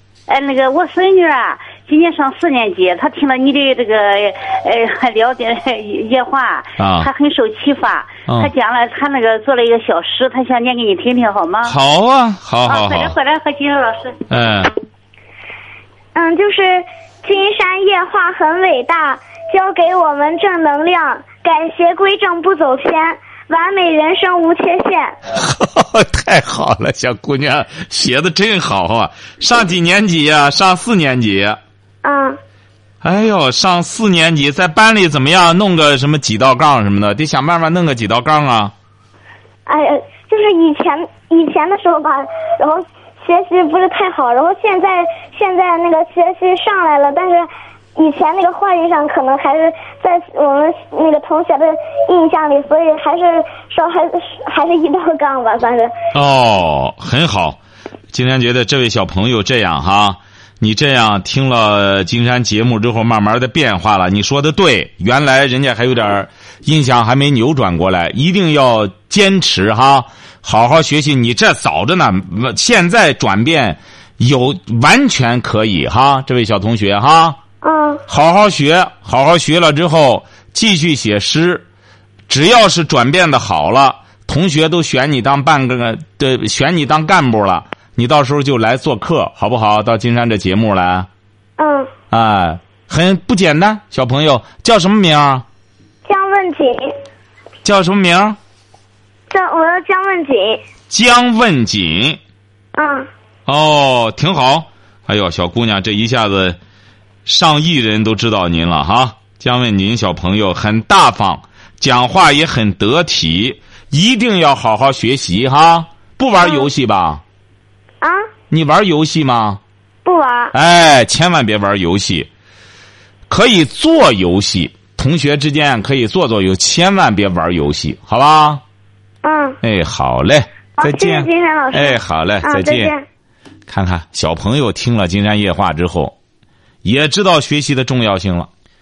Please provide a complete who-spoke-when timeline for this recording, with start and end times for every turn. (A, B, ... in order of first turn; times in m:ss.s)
0:00.3-0:11.8 A
0:06.8-0:07.1 B
0:11.6-0:13.1 B
0:12.7-0:14.2 A
0:14.3-0:14.7 B
0:16.2-0:25.1 C
0:25.3-0:31.6 B
0:32.0-0:32.4 C
0:33.0-0:38.7 B
0:39.7-0:55.9 C
0:56.1-0:57.6 B
0:58.1-1:17.4 B
1:17.6-1:18.0 C
1:18.1-1:21.6 B
1:22.3-1:31.1 B
1:31.6-1:31.9 C
1:32.1-1:35.5 B
1:36.0-1:36.9 C
1:37.6-1:38.4 B
1:39.3-1:40.6 C
1:40.9-1:42.2 B
1:42.8-1:43.1 C
1:43.5-1:46.6 B
1:47.2-1:57.2 B
1:56.4-1:56.7 C
1:58.0-1:58.3 C
1:58.5-1:59.6 B
2:00.0-2:00.5 C
2:00.5-2:02.3 B
2:03.3-2:08.6 B
2:09.2-2:09.6 C
2:09.6-2:12.9 B
2:10.8-2:13.0 C
2:13.7-2:16.2 B
2:16.8-2:18.5 B